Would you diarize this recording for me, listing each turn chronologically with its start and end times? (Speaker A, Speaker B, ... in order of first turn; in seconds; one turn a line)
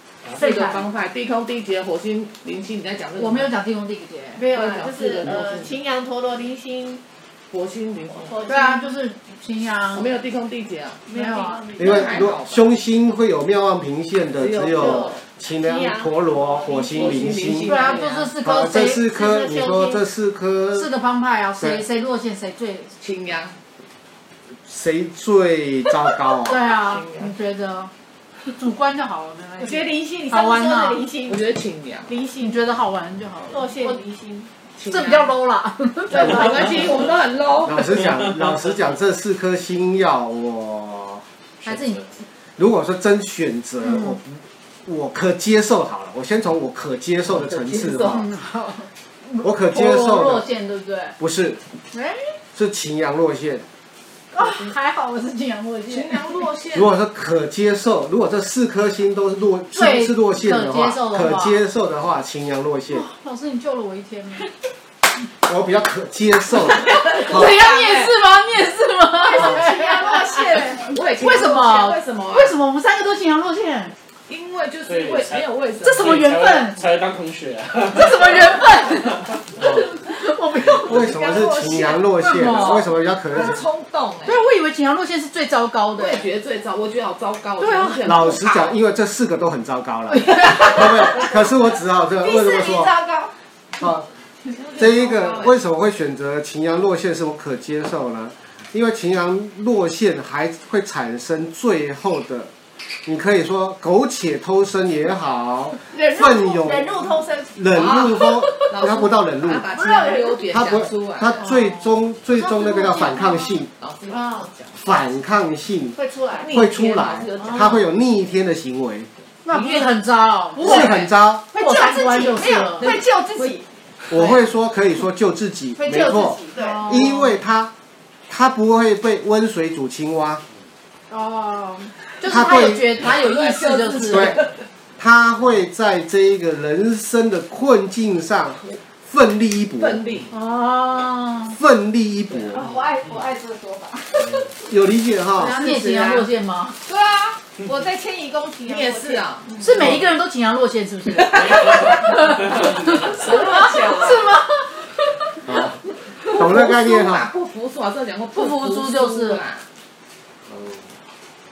Speaker A: 0.3-3.6
Speaker B: 0.4-0.8
Speaker B: 3.2-4.4
Speaker C: 4.4-7.0
Speaker A: 4.5-5.8
Speaker A: 7.5-8.4
Speaker C: 8.1-8.9
Speaker B: 8.5-10.1
Speaker A: 9.9-11.0
Speaker C: 11.1-12.1
Speaker B: 11.1-11.7
Speaker D: 11.7-17.7
Speaker A: 11.8-12.7
Speaker A: 14.3-15.2
Speaker C: 14.7-15.1
Speaker C: 15.6-17.3
Speaker A: 16.9-18.3
Speaker B: 17.7-19.1
Speaker D: 18.4-20.9
Speaker C: 19.1-20.0
Speaker B: 20.7-22.9
Speaker A: 23.0-23.6
Speaker D: 24.7-26.7
Speaker B: 26.3-27.9
Speaker A: 26.7-27.3
Speaker B: 28.5-31.1
Speaker C: 29.6-31.4
Speaker A: 31.3-32.1
Speaker C: 32.1-32.6
Speaker B: 32.4-33.9
Speaker C: 33.5-34.5
Speaker A: 34.8-35.3
Speaker B: 34.8-36.8
Speaker A: 36.1-38.1
Speaker C: 36.1-36.9
Speaker D: 37.6-41.2
Speaker B: 41.6-42.1
Speaker D: 42.6-48.3
Speaker B: 43.8-44.2
Speaker A: 47.3-48.2
Speaker B: 48.0-51.2
Speaker D: 49.4-50.5
Speaker D: 51.2-51.6
Speaker B: 51.9-52.3
Speaker D: 52.5-53.6
Speaker B: 54.3-56.4
Speaker A: 54.4-54.7
Speaker A: 55.9-56.9
Speaker D: 56.7-63.1
Speaker B: 59.7-61.6
Speaker B: 62.9-64.5
Speaker D: 65.4-67.4
Speaker A: 66.9-68.1
Speaker B: 67.1-70.6
Speaker C: 69.2-71.4
Speaker A: 70.3-72.5
Speaker B: 71.2-74.0
Speaker A: 74.3-76.2
Speaker E: 74.8-75.4
Speaker B: 75.8-76.9
Speaker E: 75.9-78.5
Speaker B: 77.8-81.1
Speaker D: 80.8-83.6
Speaker C: 80.9-81.4
Speaker A: 81.2-84.4
Speaker B: 82.2-82.9
Speaker B: 84.3-86.3
Speaker A: 86.0-88.8
Speaker B: 87.6-88.1
Speaker D: 88.0-92.9
Speaker B: 90.1-90.9
Speaker C: 92.2-93.3
Speaker D: 93.8-94.1
Speaker A: 94.5-95.6
Speaker D: 94.8-102.5
Speaker D: 103.0-106.9
Speaker C: 105.9-108.7
Speaker D: 107.5-109.7
Speaker A: 107.7-111.5
Speaker C: 109.7-110.5
Speaker D: 110.5-113.7
Speaker B: 112.3-113.6
Speaker A: 113.8-114.8
Speaker C: 114.1-114.5
Speaker D: 114.8-119.1
Speaker C: 116.0-116.5
Speaker A: 116.4-117.9
Speaker B: 119.5-122.9
Speaker A: 119.5-119.8
Speaker C: 120.6-123.7
Speaker D: 120.6-121.5
Speaker A: 122.8-123.6
Speaker D: 124.1-127.7
Speaker C: 125.8-127.0
Speaker B: 126.6-127.4
Speaker D: 128.3-130.4
Speaker C: 131.1-132.1
Speaker B: 132.2-134.4
Speaker D: 132.3-132.9
Speaker A: 133.0-134.5
Speaker D: 134.1-134.4
Speaker D: 135.0-140.0
Speaker A: 139.8-140.3
Speaker B: 140.3-141.6
Speaker D: 141.5-142.7
Speaker A: 142.3-142.7
Speaker C: 142.5-144.4
Speaker D: 144.7-145.6
Speaker B: 145.4-146.8
Speaker A: 145.5-146.3
Speaker C: 146.8-149.2
Speaker A: 148.7-150.0
Speaker B: 149.6-154.7
Speaker A: 151.2-154.3
Speaker C: 153.2-154.2
Speaker D: 155.5-155.8
Speaker A: 156.3-159.7
Speaker D: 156.3-157.3
Speaker B: 158.3-159.4
Speaker D: 160.5-160.9